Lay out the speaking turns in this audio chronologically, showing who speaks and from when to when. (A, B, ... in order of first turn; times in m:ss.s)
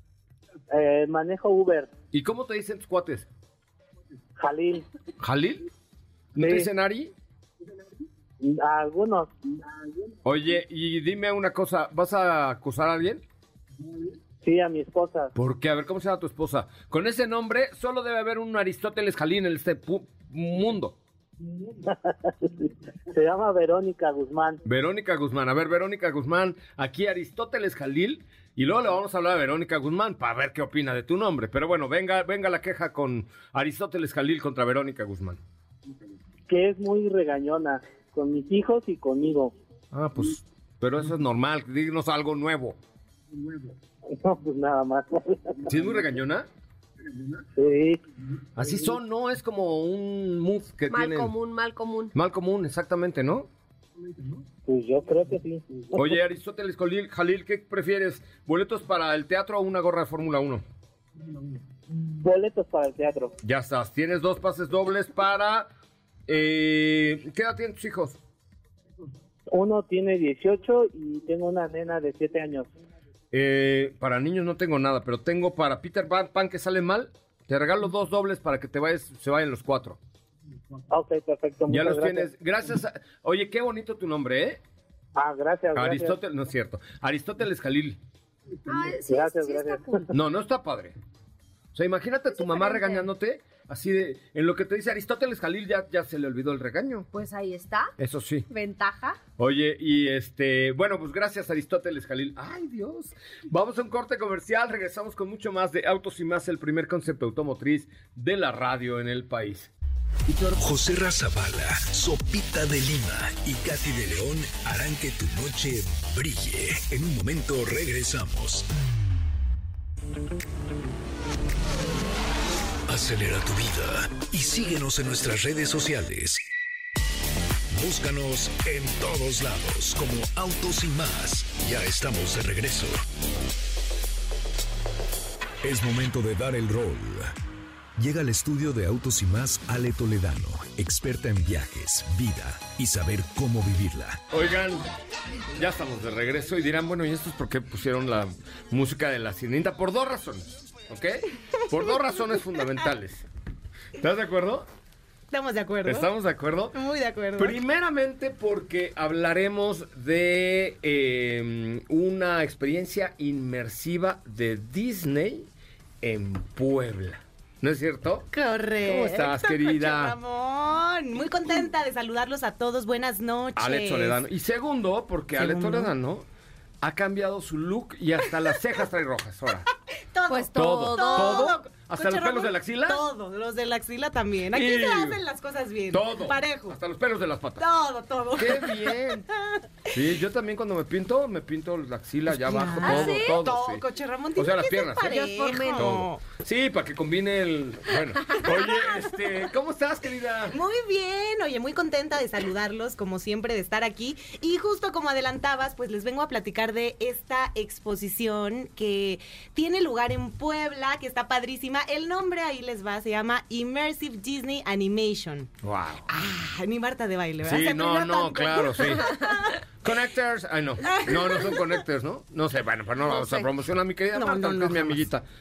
0:00.7-0:01.9 A
0:02.1-0:03.3 B
0:04.4-0:04.8 A
0:05.2-0:05.6 B
0:06.3-0:07.1 B
0:06.4-0:06.7 A
0:08.4-0:09.4 A
0:10.2-0:13.2 B
0:14.4-0:15.3 A
0:15.3-0:21.0 B
0:21.8-0:24.6 A
0:24.6-0:35.4 B
0:36.5-0:39.5 A
0:39.9-0:42.8 B
0:44.1-0:45.6 A
0:45.7-0:46.5 B
0:47.6-0:48.0 A
0:48.6-0:51.3 B
0:50.9-0:52.1 C
0:52.1-0:53.5 B
0:54.6-0:56.1 A
0:55.9-1:00.6 B
1:01.9-1:03.4 A
1:03.4-1:05.7 B
1:06.3-1:08.2 B
1:09.5-1:12.7 A
1:13.3-1:20.0 B
1:20.9-1:22.3 A
1:21.7-1:24.6 B
1:25.1-1:26.2 A
1:25.7-1:28.0 B
1:28.7-1:30.1 C
1:29.0-1:30.0 A
1:30.1-1:30.9 B
1:31.7-1:37.1 B
1:32.3-1:33.1 C
1:37.1-1:37.9 C
1:38.0-1:38.5 B
1:38.5-1:39.2 C
1:39.4-1:49.7 B
1:50.3-1:50.5 B
1:50.5-1:58.7 D
2:02.9-2:06.5 D
2:07.7-2:13.0 D
2:15.6-2:17.3 D
2:18.0-2:24.2 D
2:24.3-2:24.8 B
2:25.5-2:33.2 B
2:34.0-2:34.6 B
2:35.3-2:36.1 E
2:35.8-2:36.8 B
2:36.7-2:37.6 E
2:37.4-2:45.5 B
2:46.0-2:48.3 B
2:48.3-2:54.2 E
2:48.8-2:50.2 B
2:53.6-2:56.2 B
2:55.4-2:55.9 E
2:56.8-2:59.7 B
3:00.1-3:06.8 E
3:00.3-3:01.6 C
3:00.5-3:03.0 B
3:04.5-3:05.2 B
3:05.9-3:07.6 B
3:07.6-3:09.6 E
3:08.3-3:09.3 B
3:09.9-3:13.8 B
3:12.3-3:16.2 E
3:12.8-3:13.4 C
3:14.4-3:15.2 B
3:15.0-3:15.9 C
3:15.7-3:20.6 B
3:20.5-3:35.5 E
3:35.6-3:36.1 B
3:36.1-3:39.6 E
3:37.4-3:39.2 B
3:39.8-3:45.2 B
3:40.8-3:41.6 E
3:44.1-3:45.1 E